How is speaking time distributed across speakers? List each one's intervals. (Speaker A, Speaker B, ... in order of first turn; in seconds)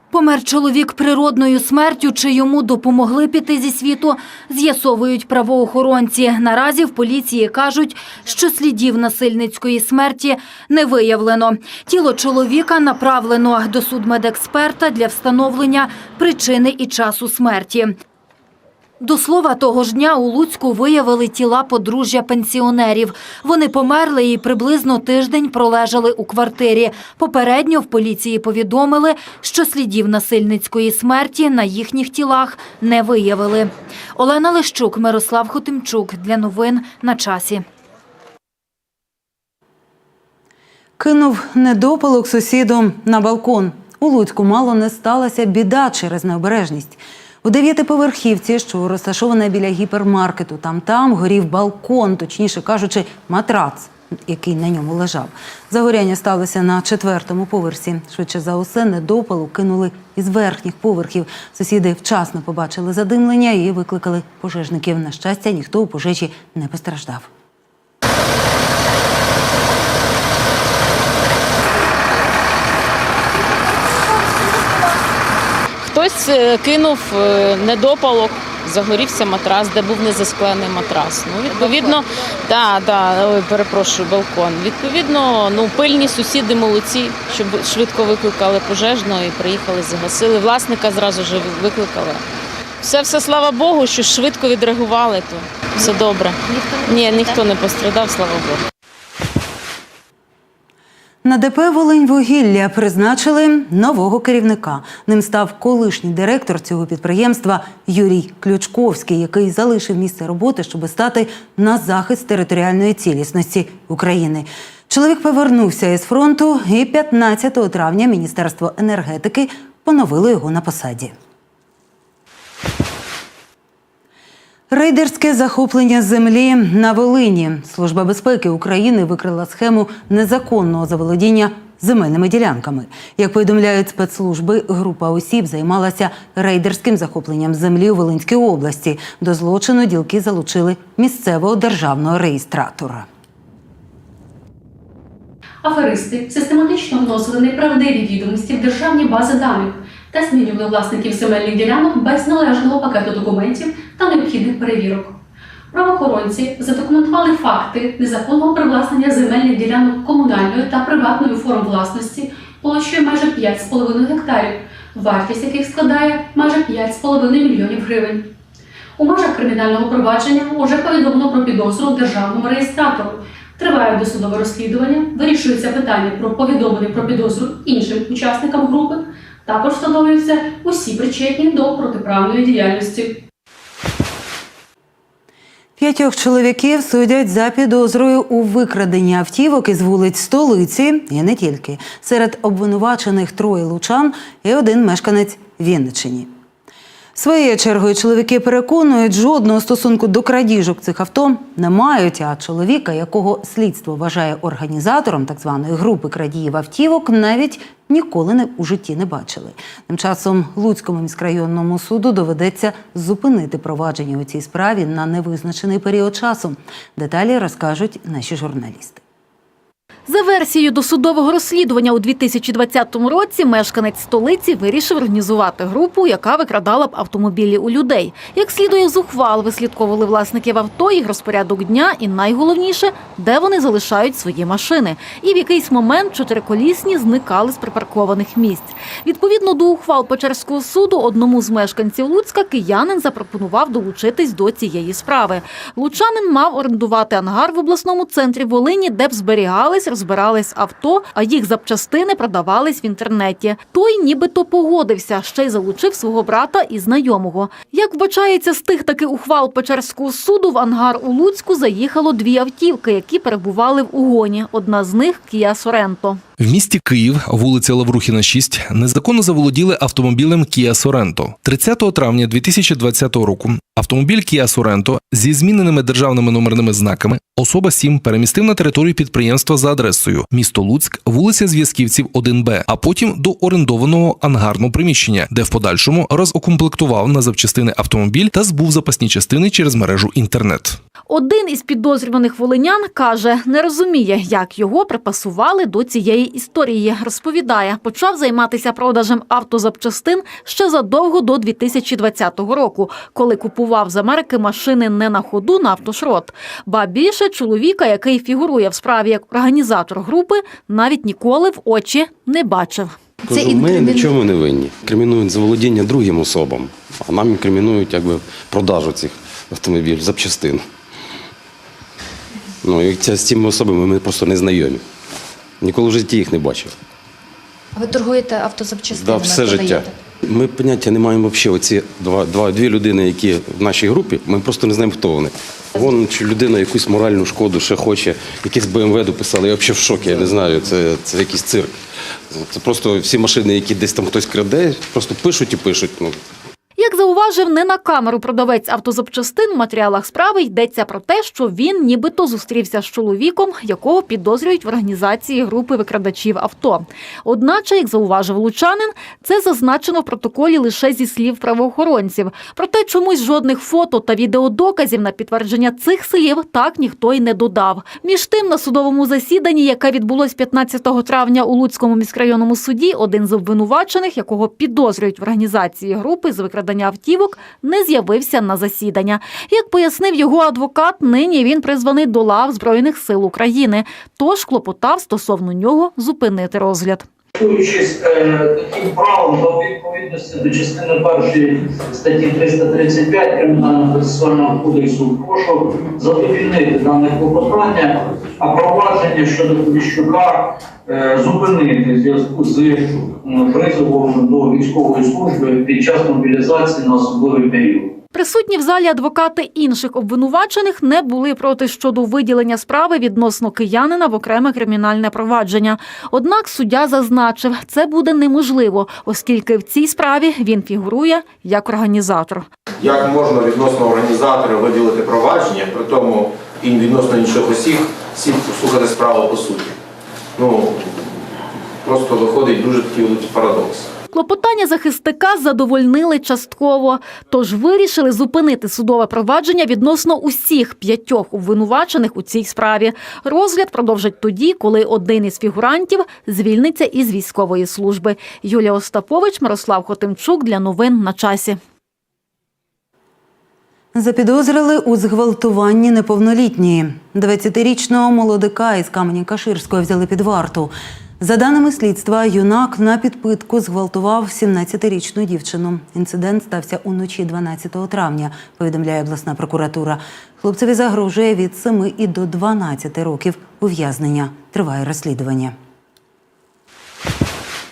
Speaker A: 0.1-18.0, 19.0-37.6
Speaker B: 41.0-67.3, 101.2-121.2, 124.7-143.1, 185.8-196.3, 197.2-219.0, 453.9-475.6
Speaker C: 75.8-92.2, 92.8-98.6
Speaker D: 145.6-155.2, 155.7-168.3, 169.0-183.2
Speaker E: 220.1-266.2, 291.1-312.9, 346.8-387.1, 408.1-422.5, 434.1-451.6
Speaker F: 266.4-290.8
Speaker G: 313.3-320.6, 322.6-324.8, 325.6-326.7, 328.9-341.7, 342.3-346.2
Speaker H: 313.3-314.2, 327.8-329.9
Speaker I: 387.4-407.9
Speaker J: 422.8-429.7, 430.4-430.7, 431.9-433.9